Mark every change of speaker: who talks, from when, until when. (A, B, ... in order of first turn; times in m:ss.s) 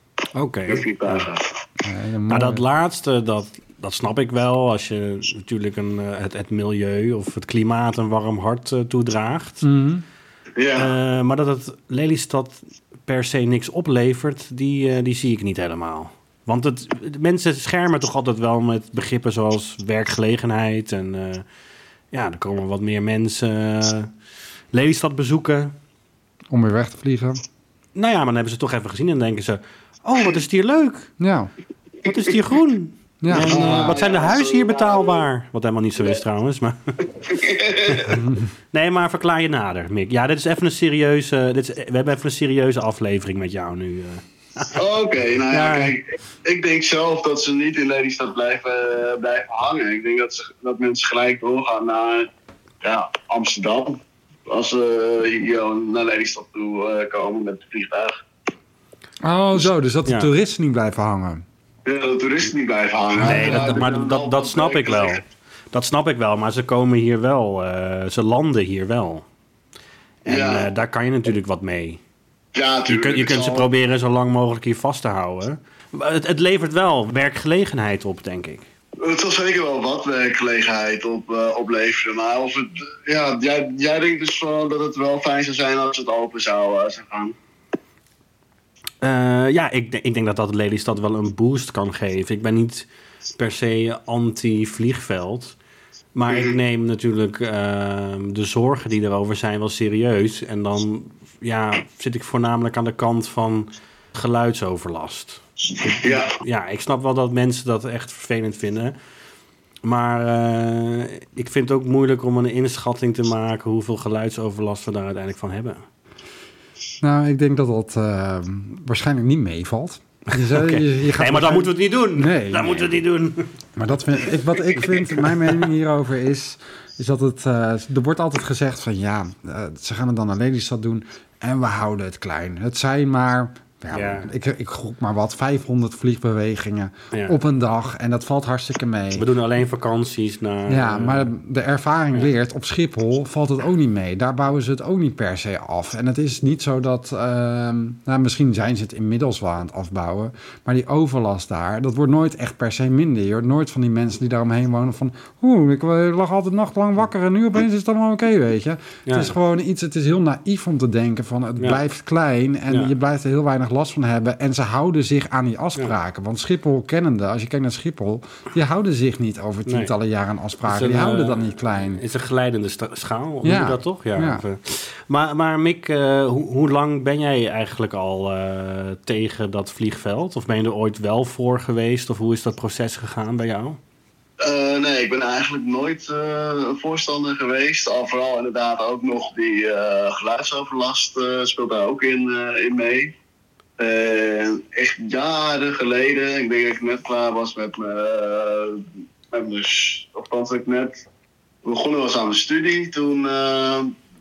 0:00.3-0:01.2 A
0:00.7-0:01.5 B
0:01.8-0:02.6 C
0:02.3-0:09.6 A
0:09.6-0:10.0 C
0:10.6-0:10.9 B
0:10.7-0:21.4 A
0:22.1-0:24.1 A
0:24.7-0:25.7 A
0:26.5-0:27.4 C
0:27.9-0:31.1 A
0:31.2-0:31.5 C
0:32.0-0:37.1 A
0:33.2-0:34.0 C
0:33.4-0:35.2 B
0:37.2-0:38.1 B
0:37.8-0:44.8 A
0:38.1-0:38.5 C
0:44.7-0:52.3 B
0:45.5-0:46.0 A
0:52.8-0:58.2 B
0:59.2-1:01.4 C
1:01.8-1:05.2 B
1:03.2-1:03.8 C
1:03.2-1:09.2 A
1:10.2-1:12.0 A
1:10.3-1:10.7 B
1:12.6-1:13.7 B
1:12.9-1:18.7 A
1:19.0-1:27.4 B
1:29.0-1:35.6 A
1:36.1-1:48.9 A
1:46.0-1:46.3 B
1:49.8-1:55.8 A
1:57.0-2:02.9 C
2:00.3-2:03.5 A
2:03.8-2:19.3 C
2:13.9-2:14.3 A
2:17.1-2:17.4 A
2:19.1-2:21.3 A
2:20.7-2:52.0 C
2:39.1-2:39.3 A
2:49.6-2:49.9 A
2:50.6-3:03.8 A
2:53.4-2:54.4 C
3:04.4-3:13.1 B
3:13.8-3:21.0 B
3:21.6-3:24.0 B